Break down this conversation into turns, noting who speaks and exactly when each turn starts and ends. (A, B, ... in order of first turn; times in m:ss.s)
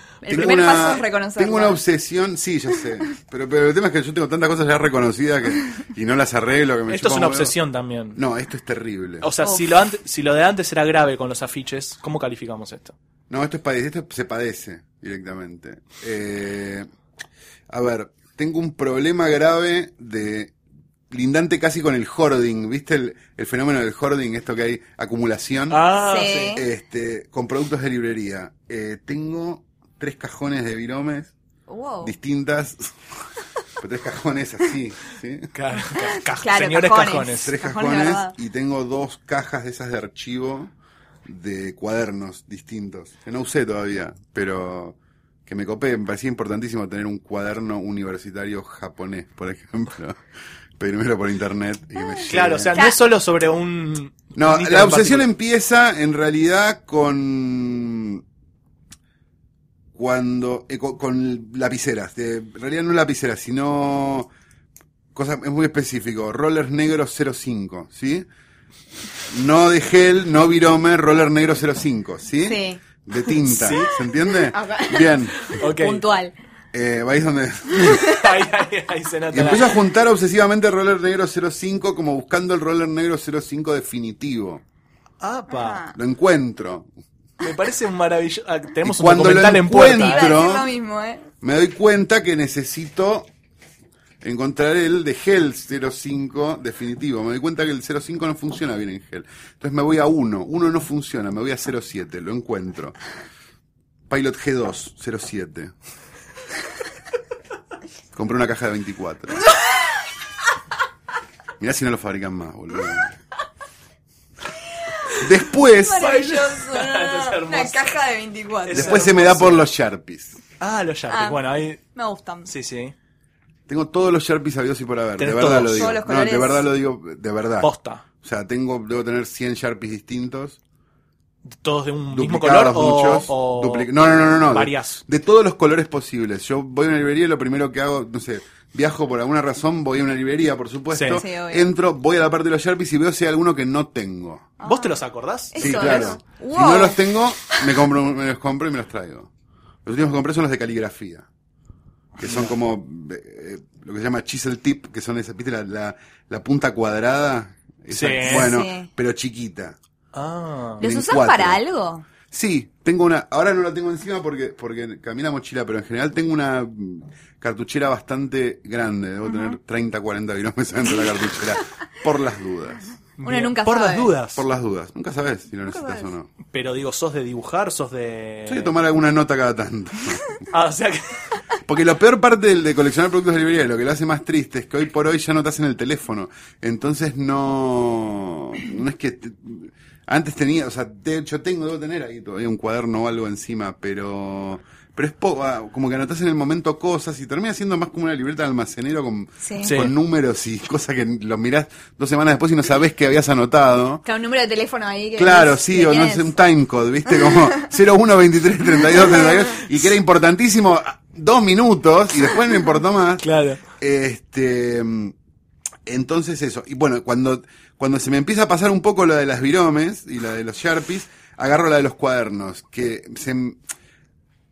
0:00.2-0:01.8 A
0:00.3-0:07.5 B
0:06.9-0:08.2 C
0:08.2-0:09.3 B
0:09.2-0:12.9 C
0:09.4-0:09.7 A
0:13.3-0:16.9 B
0:17.7-0:20.5 B
0:21.1-0:25.8 B
0:25.7-0:26.6 C
0:25.9-0:26.6 A
0:26.5-0:31.3 B
0:31.7-0:32.1 A
0:32.0-0:33.0 B
0:33.8-0:35.5 B
0:35.5-0:37.5 C
0:36.0-0:38.3 A
0:37.4-0:40.7 B
0:41.2-0:50.2 B
0:50.8-0:52.8 B
0:52.1-0:53.0 A
0:52.3-0:55.3 C
0:54.3-0:58.2 B
0:59.9-1:04.3 B
1:05.1-1:08.2 B
1:09.2-1:15.4 B
1:12.4-1:12.8 A
1:13.4-1:13.9 C
1:14.3-1:16.3 A
1:15.4-1:16.0 C
1:16.7-1:18.0 B
1:17.7-1:18.2 A
1:18.0-1:19.7 C
1:19.3-1:24.6 B
1:25.2-1:25.8 C
1:25.5-1:25.9 A
1:25.9-1:26.9 B
1:27.4-1:30.3 C
1:28.8-1:30.7 B
1:29.9-1:31.3 A
1:31.4-1:33.3 B
1:34.2-1:43.0 B
1:44.1-1:45.7 B
1:48.1-1:49.5 B
1:51.6-1:53.1 B
1:55.2-1:56.2 B
1:55.6-1:59.0 A
1:55.9-1:57.9 C
1:58.7-1:59.6 C
1:58.7-2:00.4 B
2:00.6-2:01.8 C
2:01.1-2:02.5 A
2:02.4-2:02.9 C
2:03.7-2:07.7 B
2:05.2-2:06.0 C
2:05.7-2:06.7 A
2:07.6-2:08.0 C
2:08.2-2:10.6 B
2:11.4-2:15.0 C
2:12.1-2:24.5 B
2:20.9-2:21.2 C
2:21.1-2:21.7 A
2:24.6-2:25.0 A
2:24.6-2:26.2 C
2:25.5-2:27.8 A
2:25.6-2:29.3 B
2:29.8-2:31.3 B
2:32.2-2:39.8 B
2:32.2-2:32.5 C
2:37.9-2:38.5 C
2:38.2-2:38.9 A
2:40.1-2:40.8 C
2:40.8-2:41.6 B
2:40.8-2:42.1 A
2:42.3-2:52.9 B
2:49.3-2:49.6 A
2:53.2-2:54.4 C
2:53.2-2:54.1 A
2:54.3-2:56.3 B
2:55.6-2:56.1 A
2:56.5-2:58.7 C
2:58.5-3:00.3 B
3:00.5-3:01.2 C
3:01.6-3:24.0 B
3:19.4-3:19.8 A
3:19.6-3:19.9 C
3:24.0-3:26.3 A
3:25.2-3:35.1 B
3:28.9-3:29.6 A
3:33.2-3:33.6 C
3:35.8-3:43.6 B